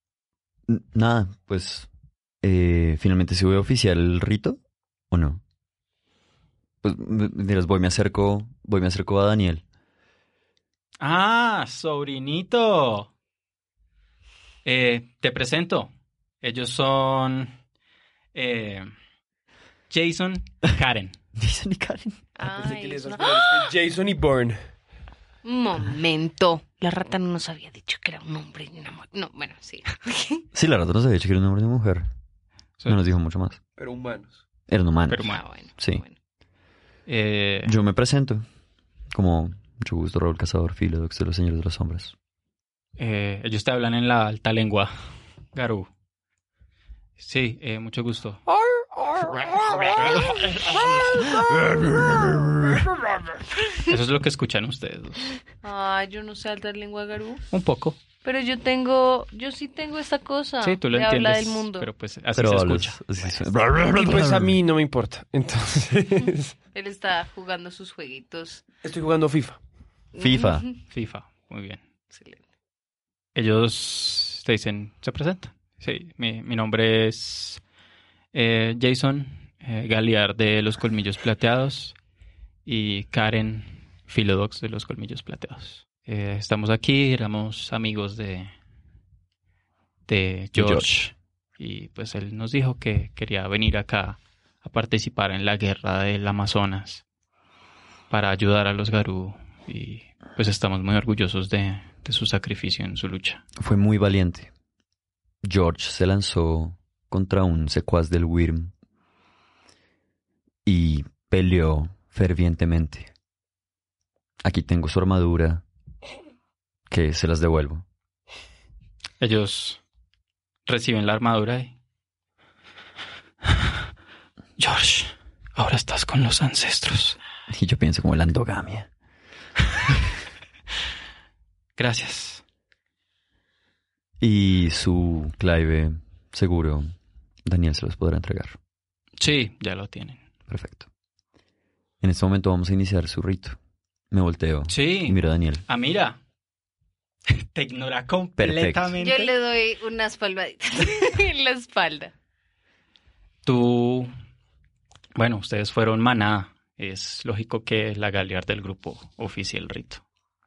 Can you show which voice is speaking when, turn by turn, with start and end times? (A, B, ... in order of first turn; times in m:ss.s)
0:00.7-0:01.9 A
0:02.4-0:04.6 A
0:05.1-0:05.4 A
0:06.8-0:09.6 A
0:11.0-0:13.1 B
0:14.6-0:15.9 B
0:16.4-0:17.5 B
0:18.3-0:18.9 B
0:19.9-0:21.2 B
0:21.4-0:22.2 A
0:22.4-0:23.7 C
0:22.4-0:24.6 D
0:25.4-0:30.4 C
0:30.5-0:32.1 A
0:32.9-0:33.6 A
0:33.8-0:34.4 D
0:34.7-0:36.0 A
0:35.1-0:35.4 B
0:35.3-0:36.2 C
0:37.1-0:37.7 B
0:37.7-0:38.4 A
0:39.1-0:42.2 A
0:43.0-0:44.9 B
0:45.5-0:45.9 B
0:47.2-0:48.4 B
0:52.1-0:52.5 A
0:53.9-0:55.3 B
0:55.6-0:57.4 C
0:57.5-0:58.0 B
0:58.2-1:01.9 C
1:00.6-1:03.1 B
1:02.4-1:04.6 A
1:03.9-1:06.6 D
1:06.7-1:08.6 C
1:08.8-1:09.6 D
1:10.1-1:10.8 C
1:10.2-1:10.6 A
1:10.9-1:11.8 B
1:12.1-1:12.4 C
1:13.4-1:17.6 B
1:18.3-1:22.0 B
1:22.7-1:28.5 B
1:30.1-1:37.0 B
1:30.5-1:30.9 A
1:38.1-1:43.4 B
1:43.6-1:44.5 A
1:45.4-1:48.7 A
1:50.7-1:53.1 A
1:54.4-1:55.6 A
1:56.9-1:57.8 A
1:59.2-1:59.8 B
2:00.7-2:01.7 B
2:04.6-2:07.2 B
2:07.5-2:08.9 A
2:11.8-2:12.4 B
2:14.2-2:16.9 A
2:17.5-2:18.6 A
2:19.2-2:20.2 B
2:20.5-2:20.9 A
2:22.0-2:23.6 A
2:24.1-2:25.6 A
2:24.7-2:25.2 B
2:25.7-2:26.2 B
2:27.4-2:29.3 B
2:28.4-2:29.0 A
2:29.0-2:32.1 C
2:33.4-2:34.1 B
2:35.2-2:40.0 B